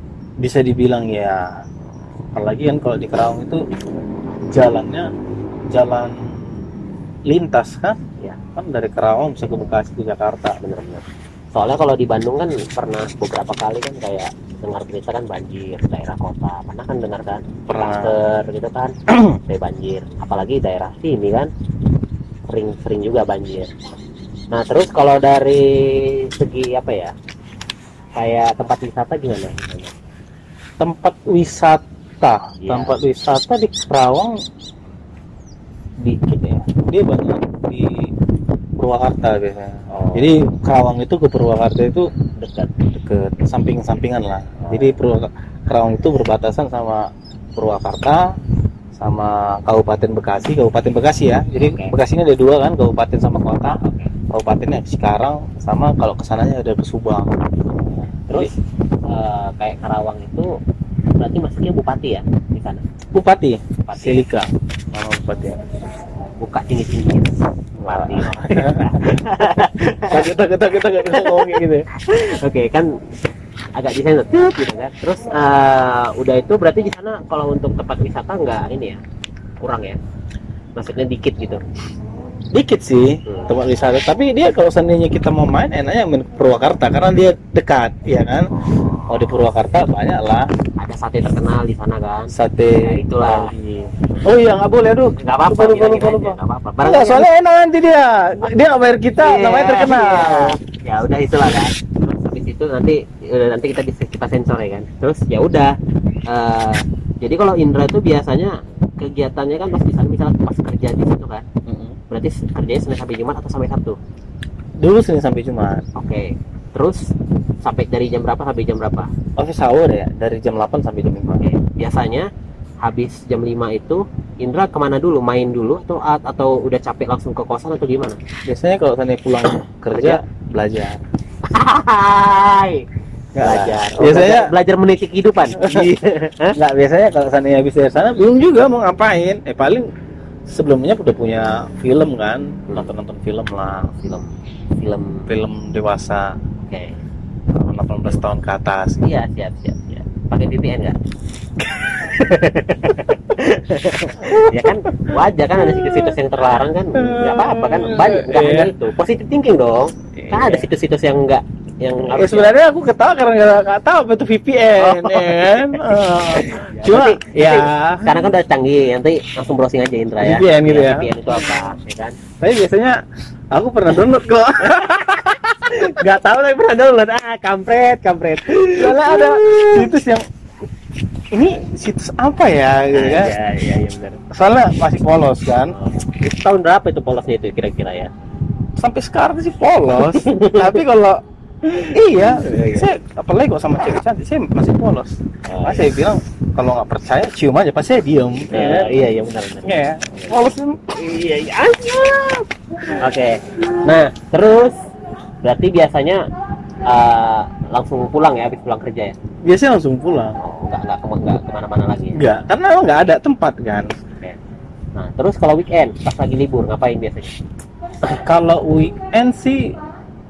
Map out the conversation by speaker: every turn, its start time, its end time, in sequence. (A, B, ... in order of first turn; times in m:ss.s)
0:00.4-0:01.5 A
0:02.3-0:03.6 A
0:04.5-0:05.1 A
0:05.7-0:06.2 A
0:07.3-0:08.0 A
0:08.5-0:10.6 A
0:10.6-0:18.9 B
0:17.7-0:18.1 A
0:19.1-0:19.4 A
0:19.5-0:21.5 B
0:22.5-0:23.7 B
0:24.5-0:27.1 B
0:28.1-0:29.9 B
0:30.8-0:34.4 A
0:32.6-0:33.0 B
0:36.0-0:38.1 A
0:38.8-0:42.1 A
0:39.9-0:40.3 B
0:42.4-0:42.7 B
0:42.8-0:48.3 A
0:44.6-0:45.0 B
0:49.0-0:53.8 A
0:51.6-0:51.9 B
0:53.8-0:54.1 B
0:54.3-0:57.3 A
0:59.1-1:00.5 B
1:01.2-1:02.8 B
1:03.1-1:05.6 A
1:03.9-1:04.3 B
1:06.4-1:07.3 B
1:07.8-1:11.8 A
1:07.9-1:10.3 B
1:11.0-1:12.9 B
1:13.8-1:19.0 B
1:19.6-1:20.0 B
1:20.8-1:21.6 B
1:22.5-1:28.5 A
1:23.2-1:23.5 B
1:28.5-1:29.4 B
1:29.1-1:30.5 A
1:30.8-1:33.5 B
1:32.3-1:40.6 A
1:35.2-1:37.3 B
1:39.2-1:51.4 B
1:51.6-1:52.0 A
1:52.1-1:54.0 B
1:54.8-1:55.8 A
1:55.9-1:57.1 B
1:57.6-1:59.1 B
1:59.4-2:01.4 A
2:01.4-2:02.3 B
2:02.8-2:08.2 B
2:08.4-2:11.0 A
2:09.9-2:10.2 B
2:11.4-2:12.9 B
2:13.4-2:14.5 A
2:13.4-2:16.6 B
2:15.6-2:19.9 A
2:20.5-2:23.9 A
2:23.9-2:25.3 B
2:25.3-2:26.4 A
2:26.6-2:27.0 B
2:27.5-2:29.1 A
2:27.9-2:28.2 B
2:29.0-2:31.0 B
2:31.9-2:42.6 B
2:34.2-2:36.1 A
2:36.9-2:38.7 A
2:40.1-2:40.7 A
2:42.0-2:48.3 A
2:44.8-2:52.2 B
2:50.2-2:51.5 A
2:52.4-2:53.0 A
2:53.5-2:55.4 A
2:54.6-2:59.9 B
2:58.7-3:00.2 A
3:01.3-3:03.4 A
3:02.9-3:04.2 B
3:04.3-3:05.7 A
3:05.7-3:08.1 B
3:08.8-3:11.2 A
3:09.9-3:10.8 B
3:11.6-3:12.9 B
3:11.9-3:19.0 A
3:15.4-3:15.9 B
3:18.5-3:22.4 B
3:19.6-3:21.0 A
3:23.0-3:24.7 B
3:25.4-3:26.2 B
3:26.9-3:29.1 B
3:29.4-3:30.4 A
3:30.4-3:32.2 B
3:32.1-3:33.9 A
3:35.0-3:37.3 B
3:38.1-3:39.7 A